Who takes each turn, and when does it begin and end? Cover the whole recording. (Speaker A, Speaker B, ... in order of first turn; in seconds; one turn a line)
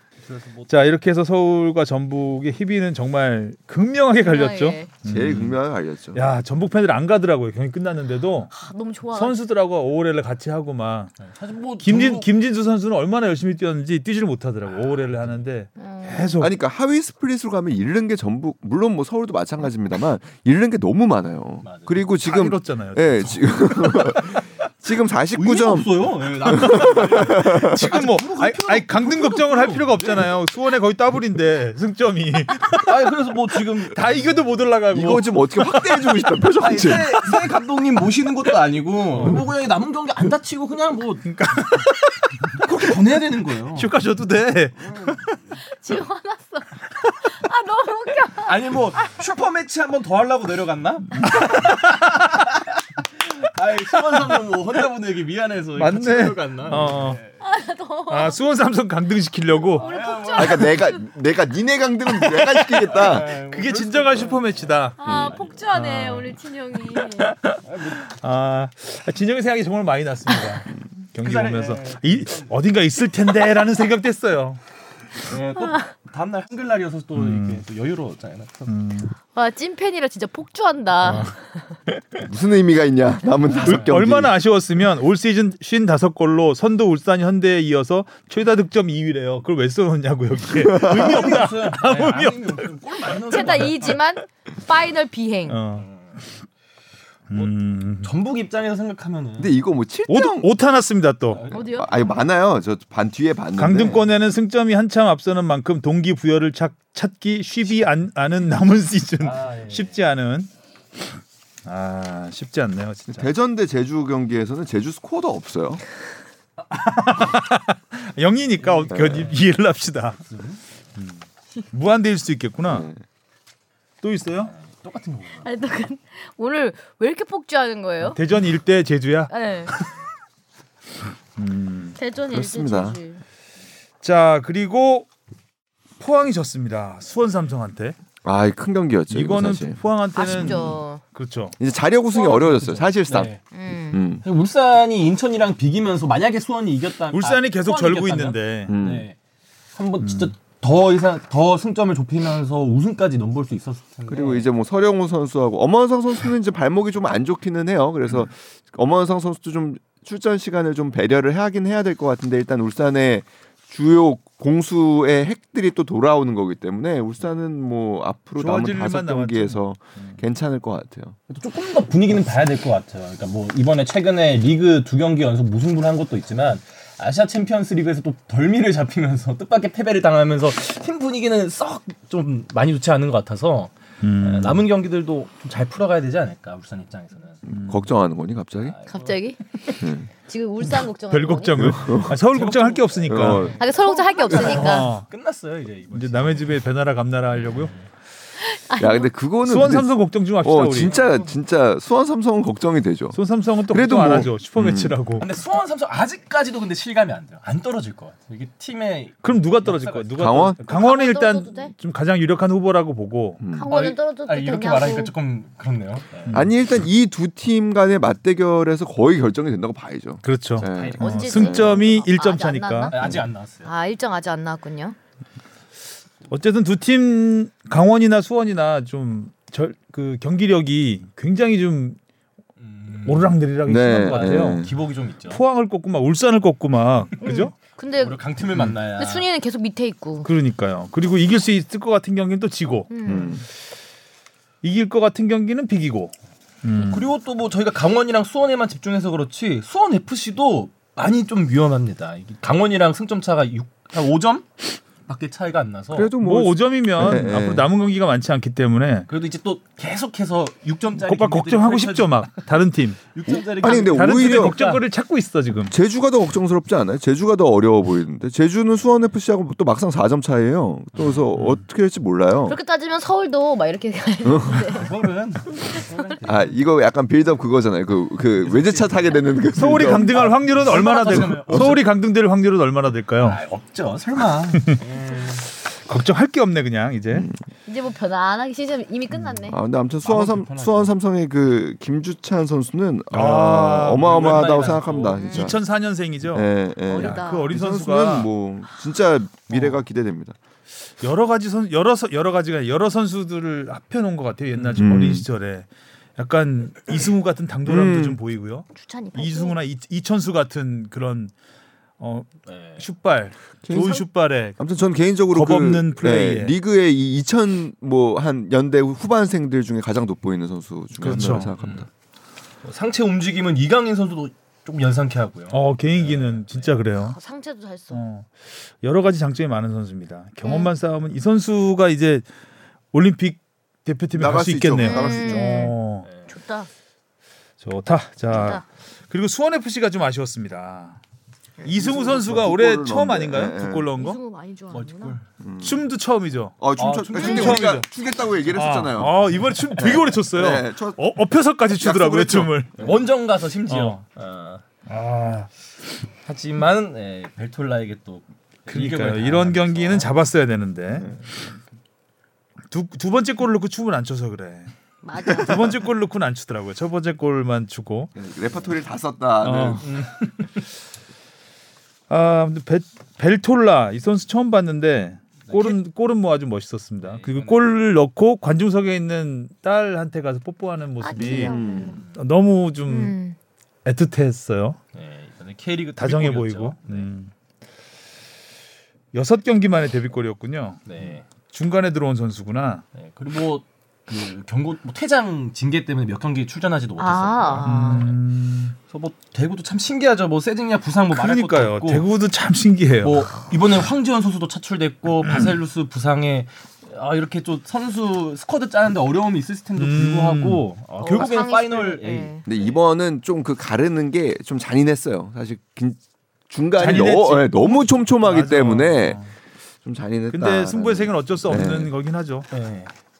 Speaker A: 0.2-0.9
Speaker B: 0.7-5.6
Speaker C: 4.2-4.9
Speaker D: 5.1-6.2
Speaker B: 6.1-8.5
Speaker C: 8.5-9.3
Speaker B: 9.1-11.2
Speaker A: 11.2-12.3
Speaker B: 11.8-16.5
Speaker A: 14.7-15.4
Speaker C: 15.8-16.4
Speaker D: 16.4-27.9
Speaker A: 21.6-22.0
Speaker B: 22.2-24.4
Speaker A: 25.3-30.3
Speaker B: 27.4-33.0
Speaker A: 32.8-34.0
Speaker B: 33.8-36.5
Speaker D: 34.9-37.1
Speaker A: 36.6-41.3
Speaker B: 39.1-39.4
Speaker B: 41.2-42.6
Speaker A: 42.6-43.9
Speaker B: 43.7-45.4
Speaker A: 44.8-45.2
Speaker C: 45.6-48.5
Speaker A: 48.4-51.7
Speaker B: 51.2-52.5
Speaker A: 53.3-57.4
Speaker B: 54.1-54.4
Speaker B: 55.8-57.2
Speaker C: 57.4-58.4
Speaker B: 58.1-59.9
Speaker A: 59.7-60.9
Speaker C: 59.8-61.0
Speaker D: 60.3-63.3
Speaker A: 62.6-65.4
Speaker B: 63.5-65.0
Speaker C: 65.0-67.3
Speaker D: 65.0-65.3
Speaker B: 65.7-66.4
Speaker B: 67.2-74.6
Speaker A: 67.6-68.0
Speaker A: 71.2-72.5
Speaker A: 75.2-78.7
Speaker B: 77.1-77.6
Speaker B: 78.7-79.1
Speaker C: 79.3-81.4
Speaker B: 81.0-81.3
Speaker D: 82.2-84.3
Speaker A: 83.4-83.9
Speaker B: 83.6-94.0
Speaker D: 90.5-91.3
Speaker A: 90.8-94.0
Speaker C: 93.3-95.6
Speaker B: 95.5-95.9
Speaker A: 95.8-96.2
Speaker B: 97.3-98.1
Speaker A: 97.3-99.5
Speaker D: 99.4-100.5
Speaker B: 100.1-101.4
Speaker A: 101.3-101.9
Speaker C: 101.5-102.1
Speaker D: 101.7-104.0
Speaker B: 103.6-110.5
Speaker A: 109.2-110.0
Speaker B: 111.6-113.3
Speaker D: 113.1-115.8
Speaker B: 116.7-120.2
Speaker A: 118.6-119.4
Speaker D: 118.9-119.3
Speaker A: 120.2-120.6
Speaker B: 121.0-122.9
Speaker D: 122.7-123.0
Speaker B: 124.0-124.5
Speaker A: 124.4-125.5
Speaker C: 125.4-128.2
Speaker B: 128.0-129.9
Speaker C: 129.3-129.7
Speaker B: 131.4-132.0
Speaker C: 131.9-133.2
Speaker D: 132.3-133.0
Speaker B: 134.0-135.1
Speaker B: 136.0-138.0
Speaker D: 138.2-140.7
Speaker B: 139.1-141.6
Speaker C: 140.1-141.0
Speaker D: 141.6-143.3
Speaker A: 142.1-143.4
Speaker C: 143.5-144.0
Speaker D: 143.9-144.2
Speaker A: 144.2-149.2
Speaker B: 147.1-148.7
Speaker D: 148.7-149.1
Speaker A: 149.7-154.5
Speaker B: 150.0-150.3
Speaker D: 154.1-171.2
Speaker B: 168.3-170.2
Speaker A: 171.3-187.4
Speaker B: 184.0-184.6
Speaker D: 187.5-188.8
Speaker B: 187.5-187.8
Speaker A: 188.6-189.2
Speaker C: 188.9-191.7
Speaker D: 189.8-190.1
Speaker B: 190.8-193.6
Speaker D: 191.5-192.2
Speaker A: 191.9-196.6
Speaker D: 193.1-193.5
Speaker C: 193.6-194.9
Speaker B: 194.3-195.1
Speaker B: 195.9-197.8
Speaker A: 197.3-197.8
Speaker C: 198.4-199.1
Speaker D: 198.8-203.2
Speaker B: 199.4-200.9
Speaker A: 200.7-201.4
Speaker B: 203.1-205.3
Speaker D: 203.7-205.0
Speaker A: 205.2-210.5
Speaker B: 209.2-213.4
Speaker D: 210.2-210.6
Speaker C: 210.7-211.7
Speaker D: 213.4-213.7
Speaker C: 213.5-215.1
Speaker A: 213.7-216.4
Speaker B: 216.2-216.5
Speaker D: 216.3-221.7
Speaker B: 220.2-222.9
Speaker A: 220.6-221.5
Speaker C: 221.0-222.9
Speaker A: 222.9-223.7
Speaker C: 223.6-224.9
Speaker B: 226.3-232.0
Speaker A: 232.6-233.4
Speaker B: 233.0-234.7
Speaker D: 233.7-234.7
Speaker A: 234.0-235.4
Speaker B: 235.3-237.5
Speaker C: 237.4-238.2
Speaker A: 238.0-239.3
Speaker C: 238.9-240.3
Speaker B: 240.2-243.3
Speaker C: 242.9-243.3
Speaker D: 243.1-243.4
Speaker B: 244.6-247.1
Speaker A: 246.8-256.1
Speaker D: 255.9-257.7
Speaker B: 256.2-259.1
Speaker A: 259.1-262.4
Speaker B: 261.0-263.0
Speaker A: 263.1-264.8
Speaker D: 263.3-264.6
Speaker B: 263.6-265.7
Speaker D: 265.7-272.6
Speaker C: 272.4-274.9
Speaker D: 274.2-274.8
Speaker A: 274.7-276.6
Speaker D: 276.2-280.2
Speaker A: 278.4-281.9
Speaker B: 279.5-283.4
Speaker D: 281.1-281.7
Speaker A: 283.2-285.4
Speaker B: 284.6-284.8
Speaker B: 285.5-287.2
Speaker C: 287.6-289.6
Speaker D: 289.4-295.6
Speaker A: 290.0-290.9
Speaker B: 293.1-294.6
Speaker A: 294.0-295.4
Speaker B: 295.3-298.3
Speaker D: 296.3-300.3
Speaker C: 296.9-297.5
Speaker B: 301.0-311.3
Speaker A: 304.5-304.8
Speaker D: 304.8-305.2
Speaker D: 307.6-308.2
Speaker C: 308.7-309.6
Speaker B: 312.0-314.6
Speaker A: 312.5-312.8
Speaker D: 313.7-314.0
Speaker D: 314.6-321.9
Speaker B: 315.3-316.5
Speaker B: 321.0-321.5
Speaker A: 321.1-321.8
Speaker A: 322.6-326.8
Speaker B: 325.5-327.2
Speaker C: 327.0-328.0
Speaker B: 327.9-332.2
Speaker C: 330.4-330.7
Speaker B: 332.9-336.1
Speaker D: 334.1-335.7
Speaker C: 334.8-335.8
Speaker A: 336.0-336.3
Speaker C: 336.3-336.7
Speaker B: 337.6-341.0
Speaker C: 338.3-338.6
Speaker B: 341.6-344.2
Speaker D: 341.7-343.9
Speaker C: 343.9-345.2
Speaker A: 344.7-345.2
Speaker D: 345.4-345.8
Speaker B: 345.6-346.6
Speaker D: 346.6-349.1
Speaker A: 346.8-347.8
Speaker B: 347.1-347.8
Speaker B: 348.5-352.8
Speaker D: 349.7-351.0
Speaker D: 351.8-352.6
Speaker A: 352.8-354.6
Speaker B: 353.7-354.0
Speaker B: 354.9-355.5
Speaker A: 356.2-360.1
Speaker B: 358.7-361.1
Speaker A: 361.0-361.6
Speaker B: 362.7-364.7
Speaker C: 365.0-365.5
Speaker B: 365.3-368.1
Speaker D: 368.1-369.8
Speaker B: 369.4-370.6
Speaker B: 372.1-383.1
Speaker A: 375.4-375.8
Speaker A: 377.0-377.7
Speaker C: 381.0-382.0
Speaker D: 381.2-382.0
Speaker A: 381.9-382.2
Speaker C: 382.9-383.4
Speaker B: 383.8-384.8
Speaker A: 384.9-387.1
Speaker B: 386.0-387.3
Speaker B: 389.1-392.8
Speaker A: 390.9-391.2
Speaker A: 392.9-398.2
Speaker C: 397.0-398.1
Speaker B: 397.6-398.8
Speaker A: 398.9-402.0
Speaker B: 401.1-403.3
Speaker A: 403.0-412.8
Speaker B: 405.2-405.5
Speaker B: 409.8-411.3
Speaker C: 411.0-412.4
Speaker D: 412.5-419.2
Speaker B: 416.8-419.3
Speaker D: 419.8-421.9
Speaker B: 420.3-422.5
Speaker A: 422.5-422.9